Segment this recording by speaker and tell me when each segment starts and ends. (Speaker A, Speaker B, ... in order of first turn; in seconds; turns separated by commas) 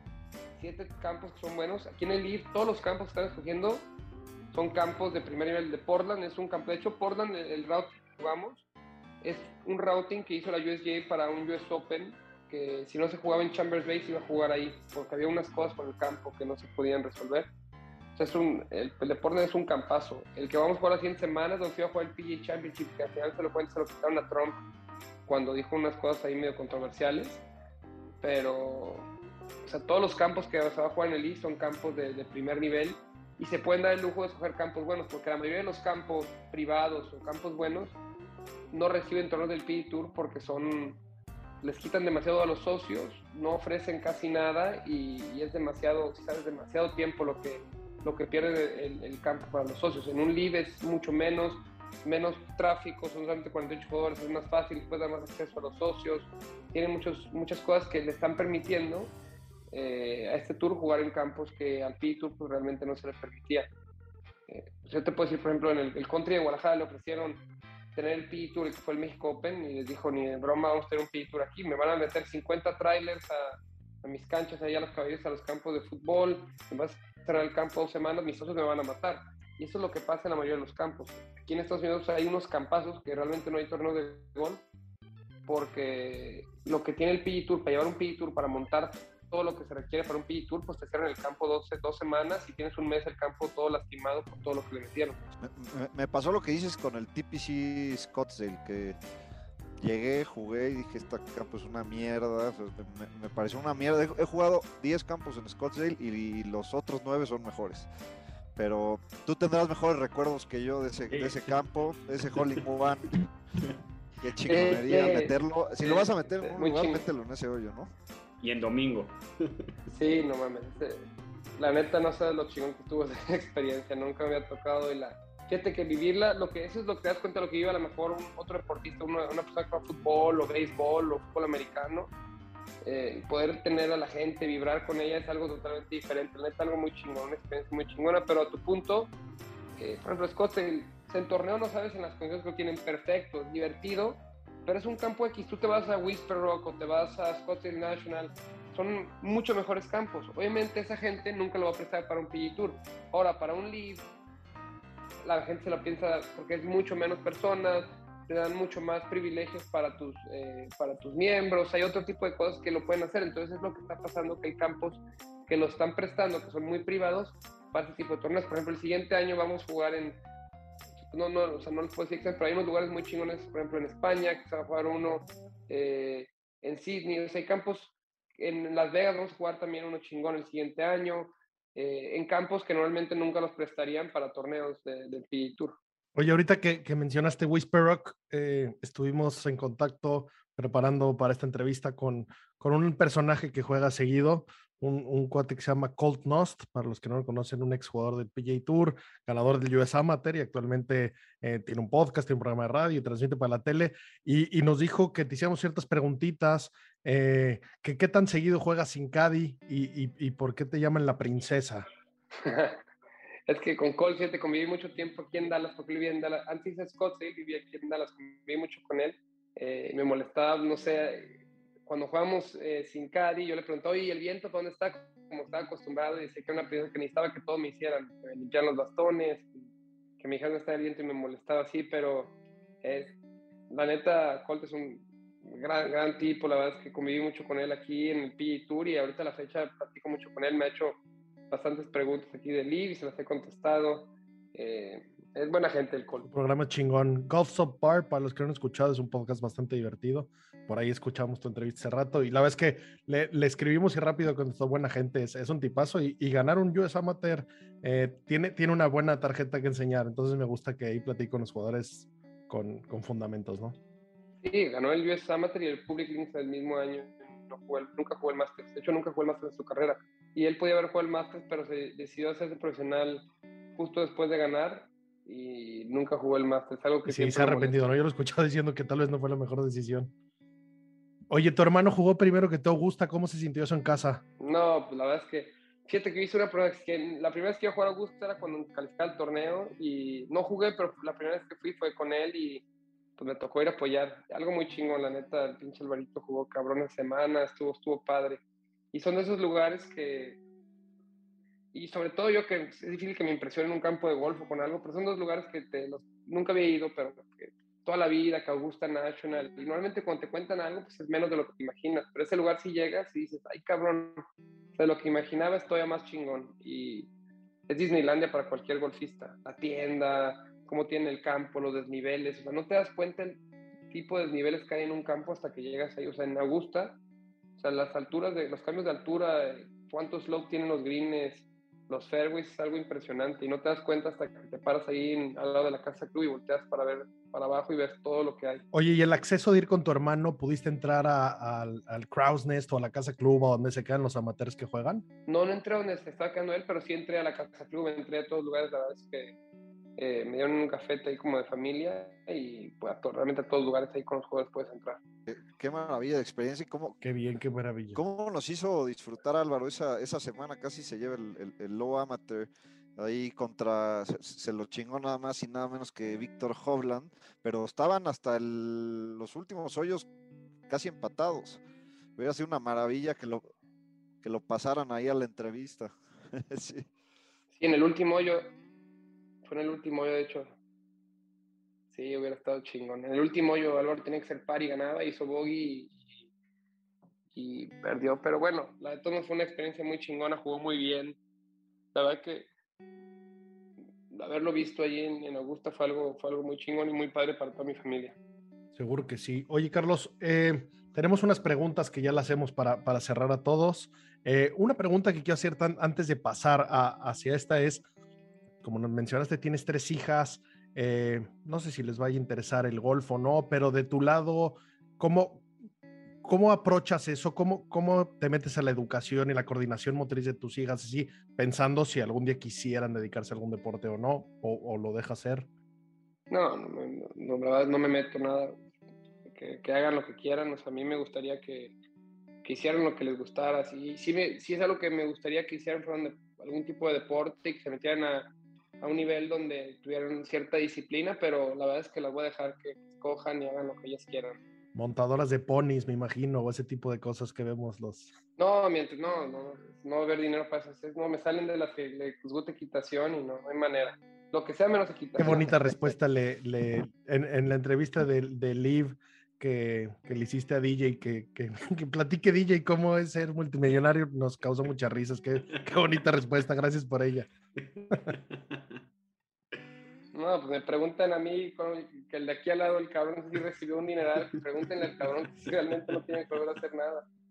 Speaker A: 0.6-3.9, Speaker A: 4.5-8.7, Speaker A: 9.2-17.5, Speaker A: 18.1-24.6, Speaker A: 25.3-27.4, Speaker A: 28.2-29.1, Speaker A: 29.6-38.0, Speaker A: 38.7-41.0, Speaker A: 41.6-59.1, Speaker A: 59.7-63.7, Speaker A: 64.5-67.4, Speaker A: 68.0-84.6, Speaker A: 85.5-95.2, Speaker B: 95.4-99.0, Speaker B: 99.8-107.9, Speaker B: 108.6-113.2, Speaker C: 111.1-111.6, Speaker B: 114.2-117.9, Speaker A: 114.5-117.0, Speaker C: 118.4-119.7, Speaker A: 119.9-121.0, Speaker A: 121.6-132.1, Speaker A: 132.8-139.1, Speaker A: 139.8-154.1, Speaker A: 155.2-170.2, Speaker A: 171.1-185.8, Speaker D: 186.2-211.9, Speaker A: 212.3-212.8, Speaker A: 213.5-229.6, Speaker A: 230.2-233.1, Speaker A: 233.7-241.0, Speaker A: 241.5-246.3, Speaker D: 246.2-263.8, Speaker A: 264.4-277.8, Speaker D: 277.1-280.1, Speaker D: 281.3-284.2, Speaker A: 284.4-292.6, Speaker A: 293.2-298.4, Speaker A: 298.9-300.4, Speaker A: 301.7-314.2, Speaker A: 314.8-317.1, Speaker A: 317.7-327.0, Speaker A: 327.6-338.6, Speaker D: 338.7-345.1, Speaker A: 345.3-349.4, Speaker A: 350.0-355.0, Speaker B: 355.3-357.0, Speaker D: 357.0-358.0, Speaker B: 357.9-370.1, Speaker B: 370.7-371.6, Speaker B: 372.2-373.5, Speaker B: 374.2-376.9, Speaker A: 377.6-378.5, Speaker A: 379.4-380.5, Speaker A: 381.9-386.2, Speaker A: 387.3-391.2, Speaker A: 391.9-392.5, Speaker A: 394.1-398.2, Speaker D: 398.8-407.9, Speaker D: 408.6-415.5, Speaker D: 416.2-425.5, Speaker A: 426.3-428.6, Speaker A: 429.3-431.7, Speaker A: 432.4-444.4, Speaker D: 444.7-448.1, Speaker A: 448.4-456.0, Speaker D: 455.2-467.3, Speaker C: 467.8-468.8, Speaker A: 470.1-477.1